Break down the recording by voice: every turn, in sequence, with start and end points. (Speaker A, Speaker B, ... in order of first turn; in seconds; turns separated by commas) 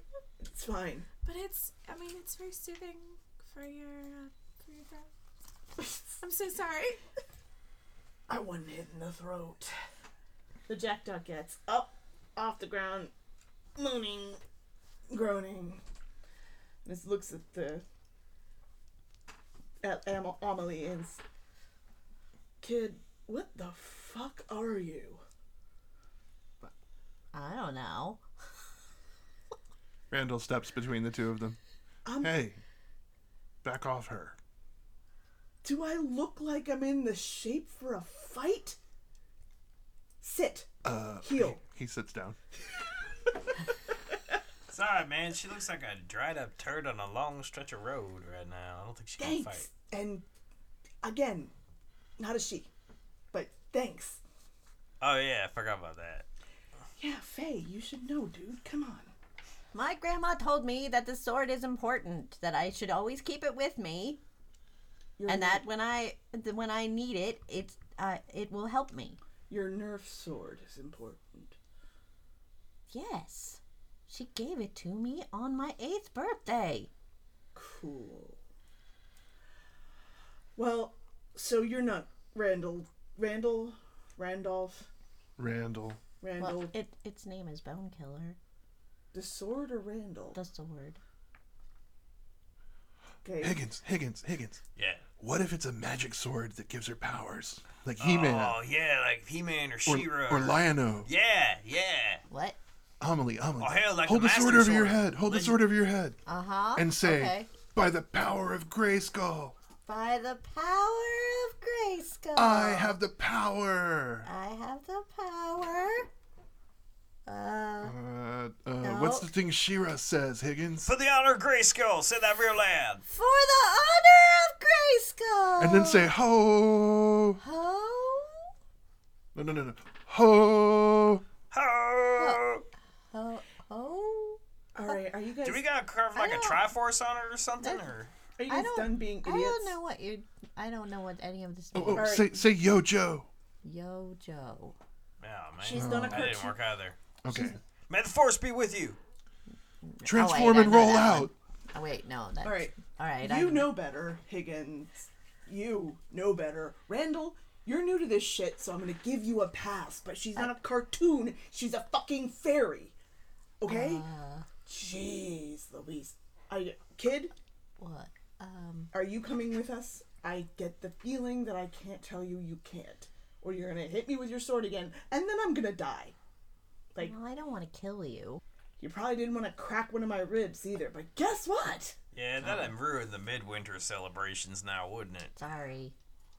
Speaker A: 0.4-1.1, Speaker B: 1.2-5.1, Speaker B: 5.8-7.0, Speaker A: 8.3-9.7, Speaker A: 10.7-13.1, Speaker A: 13.8-14.4, Speaker A: 15.1-15.8, Speaker A: 16.8-17.8, Speaker A: 19.8-21.2, Speaker A: 22.6-25.2, Speaker C: 27.3-28.2, Speaker D: 30.1-31.6, Speaker A: 32.0-32.3, Speaker D: 32.2-32.6, Speaker D: 33.6-34.4, Speaker A: 35.6-38.8, Speaker A: 40.2-40.7, Speaker D: 40.8-42.4, Speaker A: 41.2-41.6, Speaker E: 44.7-49.7, Speaker A: 49.2-50.2, Speaker A: 51.0-51.5, Speaker A: 52.2-52.7, Speaker A: 53.3-54.2, Speaker E: 55.0-56.2, Speaker A: 57.0-59.1, Speaker C: 59.7-64.2, Speaker A: 65.2-65.7, Speaker C: 65.3-69.2, Speaker A: 69.5-71.5, Speaker C: 72.9-76.9, Speaker A: 77.5-78.4, Speaker A: 80.5-84.9, Speaker D: 85.4-86.0, Speaker A: 86.2-86.8, Speaker C: 86.4-88.4, Speaker A: 89.1-90.4, Speaker C: 90.3-91.0, Speaker A: 93.2-93.6, Speaker D: 93.4-94.6, Speaker E: 94.8-95.0, Speaker D: 95.2-98.6, Speaker E: 98.0-102.2, Speaker D: 99.8-101.1, Speaker C: 102.3-102.6, Speaker D: 103.0-106.2, Speaker E: 103.6-105.6, Speaker C: 106.2-107.5, Speaker D: 106.7-109.5, Speaker C: 109.8-112.9, Speaker D: 112.3-114.3, Speaker C: 114.2-116.1, Speaker C: 117.2-117.9, Speaker D: 117.8-120.9, Speaker C: 118.8-119.3, Speaker E: 120.8-123.0, Speaker C: 123.0-126.1, Speaker D: 125.6-127.4, Speaker C: 127.4-128.4, Speaker D: 129.3-131.2, Speaker E: 131.5-132.6, Speaker C: 132.2-132.4, Speaker C: 133.1-135.0, Speaker A: 134.7-135.6, Speaker E: 135.4-138.1, Speaker C: 136.1-136.6, Speaker C: 137.6-137.9, Speaker A: 138.4-139.8, Speaker C: 138.5-142.3, Speaker D: 141.7-143.3, Speaker A: 141.9-142.3, Speaker C: 143.6-144.8, Speaker E: 145.2-147.0, Speaker A: 145.6-146.6, Speaker D: 145.7-146.3, Speaker D: 147.2-147.6, Speaker E: 147.9-149.0, Speaker C: 149.8-153.7, Speaker D: 150.0-151.3, Speaker A: 152.4-162.9, Speaker A: 163.6-164.1, Speaker C: 163.7-164.5, Speaker A: 164.7-167.3, Speaker C: 167.8-168.9, Speaker A: 168.9-176.2, Speaker C: 177.0-178.4, Speaker A: 178.8-181.9, Speaker E: 182.1-185.3, Speaker C: 185.3-185.9